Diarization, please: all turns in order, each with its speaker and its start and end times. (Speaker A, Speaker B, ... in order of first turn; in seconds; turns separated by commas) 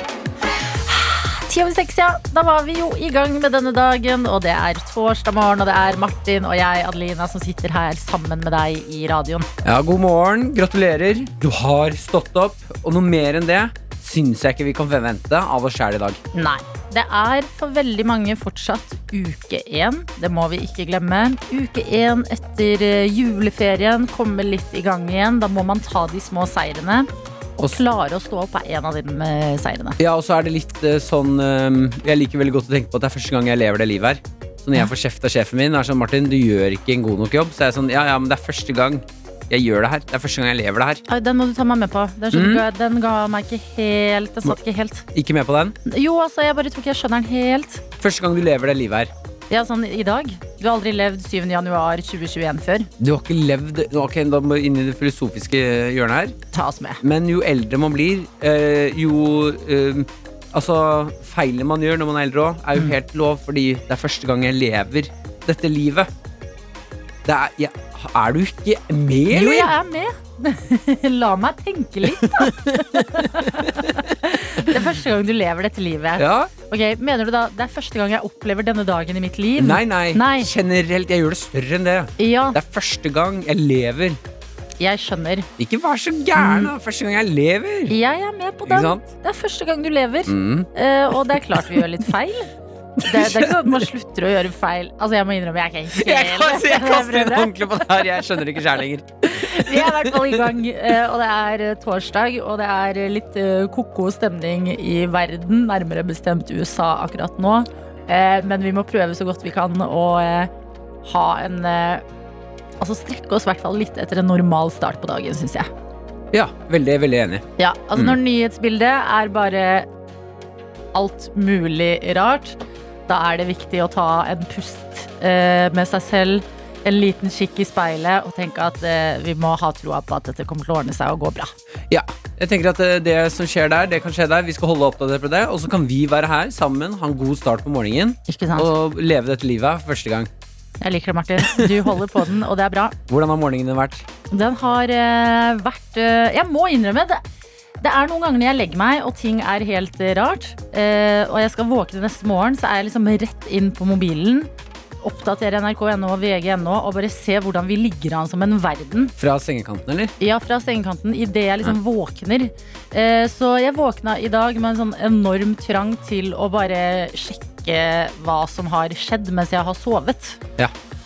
Speaker A: 0.9-9.5, Speaker B: 9.6-16.2, Speaker A: 16.3-27.1, Speaker A: 27.7-30.0, Speaker B: 30.0-41.0, Speaker A: 41.1-45.0, Speaker B: 42.3-42.7, Speaker B: 45.1-45.8, Speaker A: 45.9-47.8, Speaker B: 48.0-49.1, Speaker A: 49.5-52.9, Speaker B: 53.0-56.4, Speaker A: 56.5-57.0, Speaker B: 57.0-66.1, Speaker B: 67.2-69.7, Speaker A: 69.3-80.5, Speaker B: 72.0-74.2, Speaker B: 76.2-76.5, Speaker B: 79.6-84.2, Speaker A: 82.2-82.6, Speaker A: 84.8-85.5, Speaker B: 85.6-88.0, Speaker A: 86.4-86.7, Speaker A: 87.9-92.5, Speaker B: 88.7-89.1, Speaker B: 90.3-90.7, Speaker B: 91.3-91.8, Speaker B: 93.0-93.8, Speaker A: 93.0-98.2, Speaker B: 95.9-100.5, Speaker A: 99.2-110.5, Speaker A: 111.0-112.0, Speaker A: 112.8-115.7, Speaker B: 116.3-118.2, Speaker A: 117.6-119.9, Speaker A: 120.9-122.6, Speaker A: 123.1-131.5, Speaker B: 131.9-140.3, Speaker A: 138.3-138.7, Speaker A: 140.8-143.0, Speaker B: 141.4-141.9, Speaker B: 143.1-144.1, Speaker A: 144.3-147.2, Speaker A: 147.8-154.5, Speaker A: 155.0-159.1, Speaker B: 159.2-160.1, Speaker A: 160.2-170.4